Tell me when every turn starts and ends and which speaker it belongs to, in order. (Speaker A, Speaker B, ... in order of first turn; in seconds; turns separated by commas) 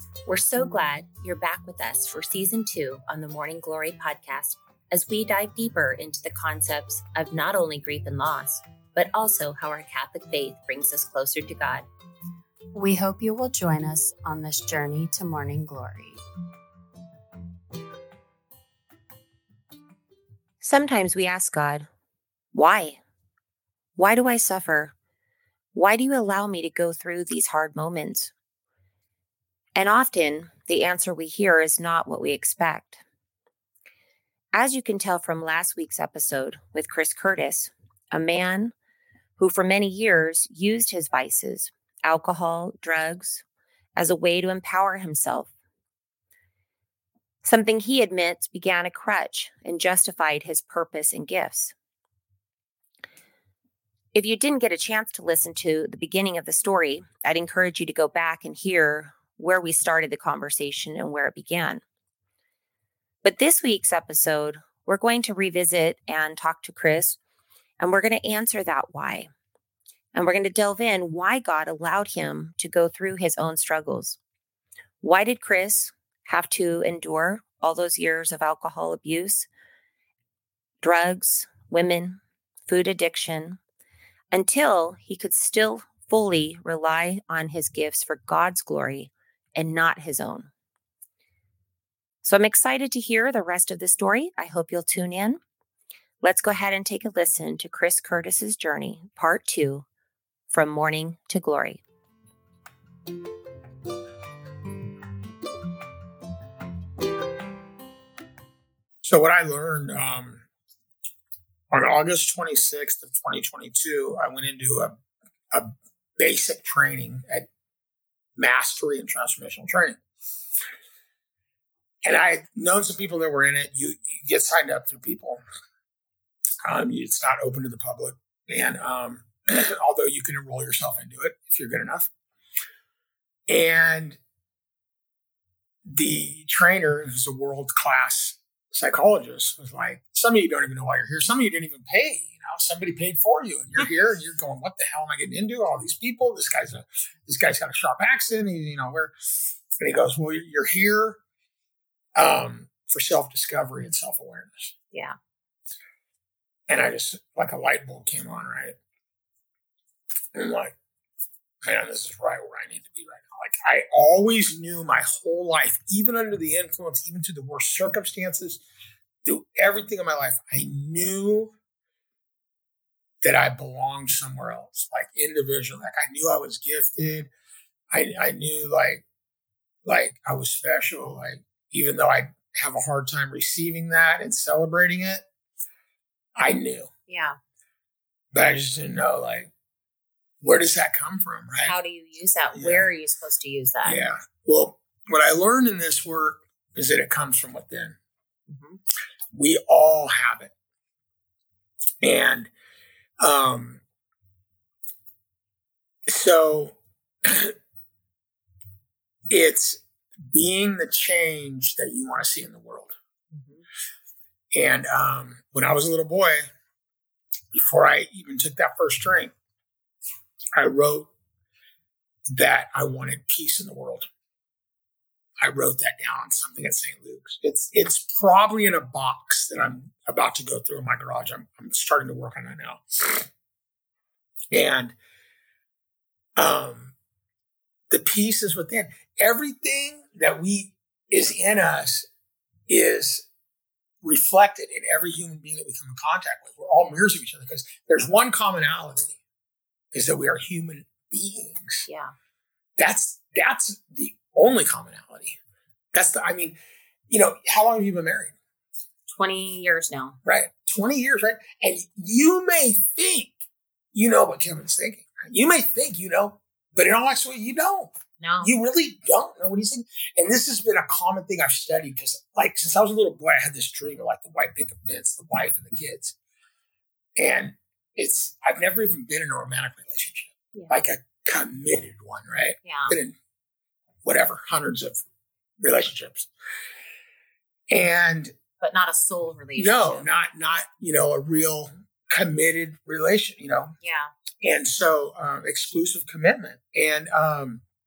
Speaker A: 0.2-11.8, Speaker B: 12.7-16.2, Speaker A: 20.6-21.9, Speaker A: 22.5-23.0, Speaker A: 23.9-24.9, Speaker A: 25.7-28.3, Speaker A: 29.8-33.0, Speaker A: 34.5-38.7, Speaker A: 39.4-43.4, Speaker A: 44.0-45.5, Speaker A: 47.4-51.7, Speaker A: 54.1-61.8, Speaker A: 63.2-67.2, Speaker A: 67.8-69.3, Speaker A: 70.1-74.2, Speaker A: 75.0-79.5, Speaker A: 80.8-83.6, Speaker A: 84.3-90.5, Speaker A: 92.2-95.4, Speaker A: 96.2-99.8, Speaker A: 100.5-101.8, Speaker C: 109.0-110.4, Speaker C: 111.7-114.9, Speaker C: 115.5-117.5, Speaker C: 118.4-120.0, Speaker C: 122.0-125.4, Speaker C: 126.6-132.1, Speaker C: 133.5-134.2, Speaker C: 135.9-149.1, Speaker C: 149.8-151.2, Speaker C: 152.1-154.7, Speaker C: 156.7-158.8, Speaker C: 160.3-160.7, Speaker C: 161.6-168.6, Speaker C: 169.2-171.5, Speaker C: 173.2-177.3, Speaker C: 177.9-179.0, Speaker C: 179.8-185.2, Speaker C: 186.3-186.9, Speaker A: 187.1-187.3, Speaker C: 188.3-189.5, Speaker C: 190.4-191.8, Speaker A: 191.6-194.0, Speaker C: 192.5-192.9, Speaker C: 193.8-198.0, Speaker A: 198.5-198.8, Speaker C: 199.3-200.5, Speaker C: 202.0-202.5, Speaker C: 203.2-203.8, Speaker C: 206.1-207.5, Speaker C: 209.3-212.9, Speaker A: 213.3-213.6, Speaker C: 214.5-216.4, Speaker C: 217.5-219.3, Speaker C: 220.5-221.1, Speaker C: 222.3-224.1, Speaker C: 225.4-233.3, Speaker C: 234.5-234.9, Speaker C: 236.3-236.9, Speaker C: 237.9-242.1, Speaker C: 242.7-243.2, Speaker C: 244.0-249.2, Speaker C: 249.9-251.9, Speaker C: 252.8-255.4, Speaker C: 255.9-256.6, Speaker C: 257.1-258.4, Speaker A: 259.1-260.2, Speaker C: 260.2-263.4, Speaker C: 263.9-276.1, Speaker A: 268.2-268.5, Speaker C: 277.2-283.1, Speaker A: 282.6-282.9, Speaker C: 284.0-285.0, Speaker C: 285.6-286.3, Speaker C: 287.7-288.4, Speaker A: 288.6-290.1, Speaker C: 289.6-293.7, Speaker A: 293.8-294.1, Speaker C: 294.4-297.6